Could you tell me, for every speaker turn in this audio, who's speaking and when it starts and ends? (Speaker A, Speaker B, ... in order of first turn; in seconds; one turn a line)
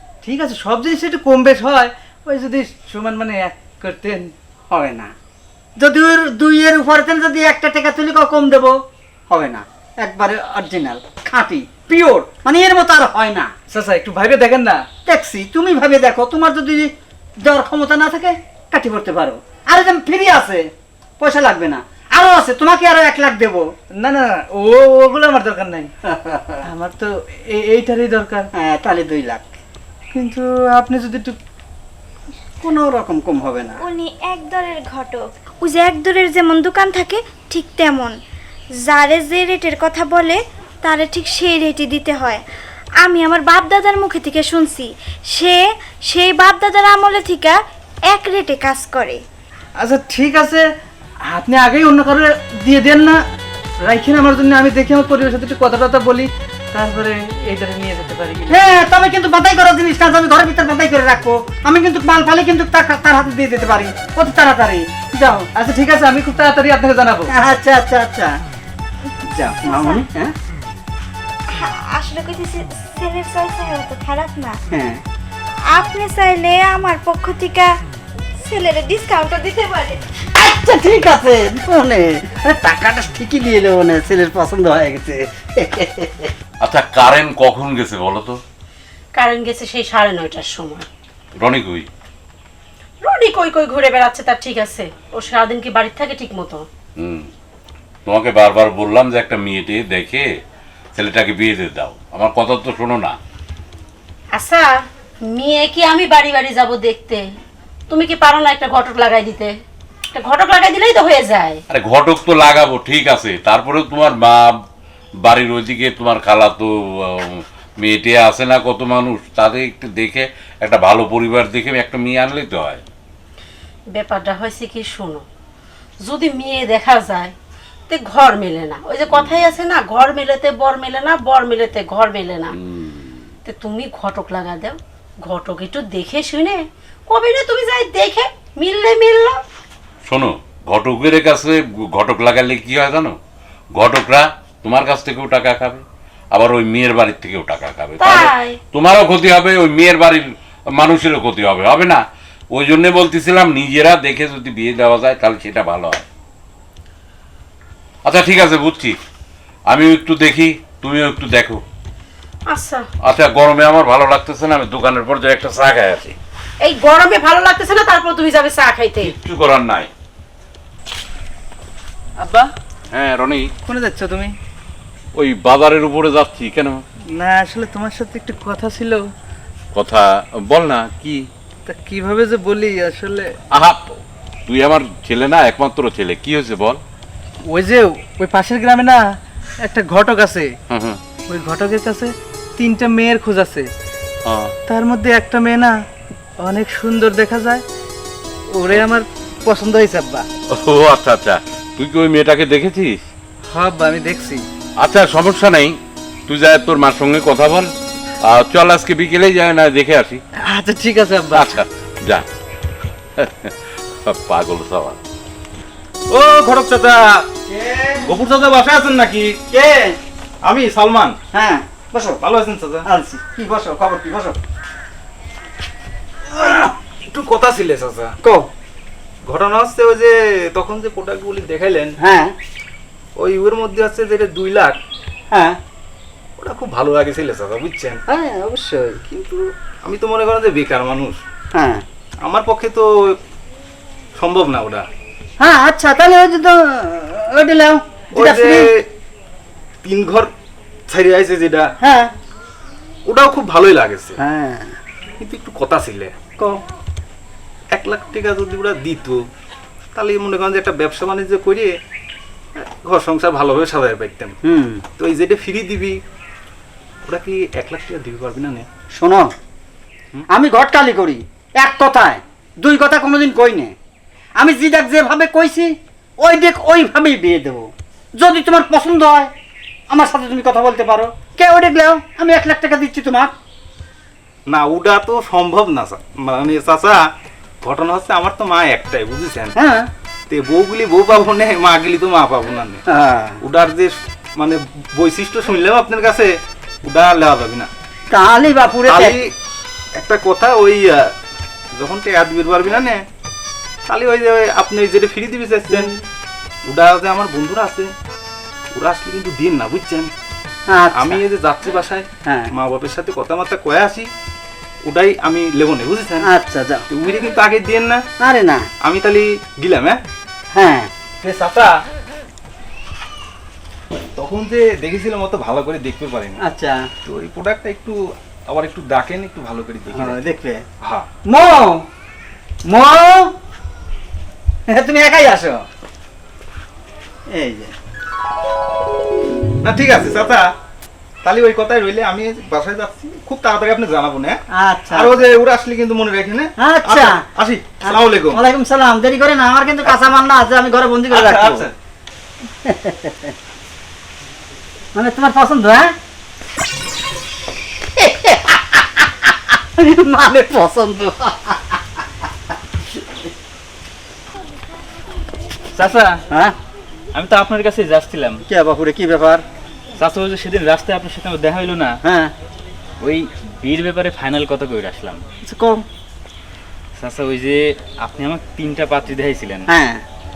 Speaker A: 0.2-4.3
Speaker B: 4.7-5.1
Speaker B: 5.8-8.8
Speaker B: 9.3-13.5
Speaker A: 13.7-14.8
Speaker B: 15.1-20.6
Speaker B: 21.2-23.7
Speaker A: 24.0-25.9
Speaker B: 26.0-26.6
Speaker A: 26.7-28.5
Speaker B: 28.5-29.6
Speaker A: 30.1-31.4
Speaker B: 32.6-33.8
Speaker C: 33.8-38.1
Speaker C: 38.8-42.4
Speaker C: 43.0-49.2
Speaker A: 49.8-50.6
Speaker A: 51.3-53.2
Speaker A: 53.8-58.6
Speaker B: 58.5-65.5
Speaker A: 65.5-67.3
Speaker B: 67.3-68.3
Speaker B: 69.2-70.3
Speaker C: 69.6-70.0
Speaker C: 71.5-74.6
Speaker B: 74.7-75.0
Speaker C: 75.7-77.8
Speaker C: 78.4-80.0
Speaker B: 80.3-86.3
Speaker D: 86.6-88.4
Speaker E: 89.2-90.9
Speaker D: 91.4-91.9
Speaker E: 93.0-96.7
Speaker D: 97.0-97.3
Speaker D: 98.1-100.3
Speaker D: 101.0-103.2
Speaker E: 104.3-107.3
Speaker E: 107.9-109.5
Speaker E: 110.1-111.6
Speaker D: 111.7-114.5
Speaker D: 115.2-122.8
Speaker E: 123.9-125.2
Speaker E: 126.0-127.3
Speaker E: 127.9-132.6
Speaker D: 129.1-129.5
Speaker D: 132.6-133.2
Speaker E: 133.5-139.4
Speaker D: 140.1-143.2
Speaker D: 143.7-156.0
Speaker E: 148.0-148.6
Speaker D: 158.1-159.0
Speaker D: 159.7-161.6
Speaker E: 162.5-162.9
Speaker D: 163.0-166.2
Speaker E: 166.6-169.2
Speaker D: 169.0-169.9
Speaker A: 172.2-172.5
Speaker D: 172.9-173.5
Speaker A: 173.7-174.3
Speaker D: 175.2-176.8
Speaker A: 177.1-179.1
Speaker D: 179.8-181.3
Speaker A: 181.7-183.3
Speaker D: 183.5-186.8
Speaker A: 187.5-189.0
Speaker A: 189.6-190.5
Speaker D: 190.7-191.0
Speaker A: 191.3-193.7
Speaker D: 194.2-194.5
Speaker A: 194.7-195.7
Speaker A: 196.4-197.6
Speaker A: 198.5-200.3
Speaker D: 200.5-203.1
Speaker A: 203.5-204.4
Speaker D: 204.8-205.8
Speaker D: 206.3-207.7
Speaker D: 208.2-210.2
Speaker A: 210.4-211.6
Speaker D: 211.3-212.2
Speaker D: 213.2-215.0
Speaker F: 216.1-217.2
Speaker B: 217.5-218.1
Speaker F: 218.0-219.3
Speaker B: 219.5-220.0
Speaker F: 220.4-221.2
Speaker B: 221.3-222.2
Speaker F: 222.2-222.9
Speaker B: 222.9-224.4
Speaker F: 226.4-228.1
Speaker B: 228.2-228.5
Speaker F: 229.3-231.9
Speaker B: 232.0-232.4
Speaker F: 233.2-234.8
Speaker B: 235.3-235.6
Speaker F: 236.4-238.0
Speaker B: 238.1-239.0
Speaker F: 239.1-241.2
Speaker B: 241.5-241.8
Speaker F: 242.2-243.2
Speaker F: 244.2-244.9
Speaker B: 245.4-248.7
Speaker F: 248.2-248.9
Speaker F: 249.8-250.3
Speaker F: 250.9-251.7
Speaker B: 251.8-252.1
Speaker F: 253.1-254.2
Speaker B: 254.2-254.8
Speaker F: 255.2-256.1
Speaker F: 257.7-259.2
Speaker F: 259.9-261.7
Speaker F: 262.6-264.4
Speaker B: 264.4-264.8
Speaker F: 265.0-266.0
Speaker F: 267.0-268.7
Speaker B: 269.0-269.3
Speaker B: 270.3-273.7
Speaker B: 274.4-279.3
Speaker B: 279.9-283.3
Speaker F: 284.5-287.0
Speaker F: 287.6-289.5
Speaker B: 289.6-289.9
Speaker F: 290.3-292.8
Speaker B: 292.9-293.4
Speaker F: 293.4-296.3
Speaker F: 296.8-297.7
Speaker B: 298.1-299.2
Speaker F: 298.9-299.3
Speaker F: 299.9-301.1
Speaker F: 301.8-303.0
Speaker F: 303.9-305.9
Speaker B: 305.7-306.0
Speaker F: 306.7-307.9
Speaker F: 308.7-310.1
Speaker B: 310.7-311.2
Speaker F: 310.9-314.1
Speaker B: 312.3-312.5
Speaker F: 314.9-316.3
Speaker B: 316.2-316.9
Speaker F: 316.9-318.0
Speaker B: 318.2-318.7
Speaker F: 318.8-320.0
Speaker B: 320.6-320.9
Speaker F: 321.2-321.7
Speaker F: 324.2-326.4
Speaker B: 326.4-326.9
Speaker F: 327.1-330.2
Speaker B: 329.9-330.6
Speaker B: 331.3-331.9
Speaker B: 332.7-333.3
Speaker B: 334.7-335.6
Speaker B: 337.3-337.7
Speaker F: 339.6-340.5
Speaker F: 341.2-344.4
Speaker B: 344.5-345.1
Speaker F: 344.9-348.4
Speaker B: 346.6-347.2
Speaker B: 347.9-351.7
Speaker F: 351.1-351.7
Speaker B: 352.6-353.3
Speaker B: 354.9-355.9
Speaker B: 357.8-362.0
Speaker G: 365.8-366.2
Speaker B: 366.3-366.6
Speaker G: 367.1-368.4
Speaker B: 368.5-369.4
Speaker G: 370.0-372.0
Speaker B: 372.0-372.3
Speaker G: 373.0-375.2
Speaker B: 375.4-375.8
Speaker G: 377.0-379.7
Speaker B: 379.7-380.0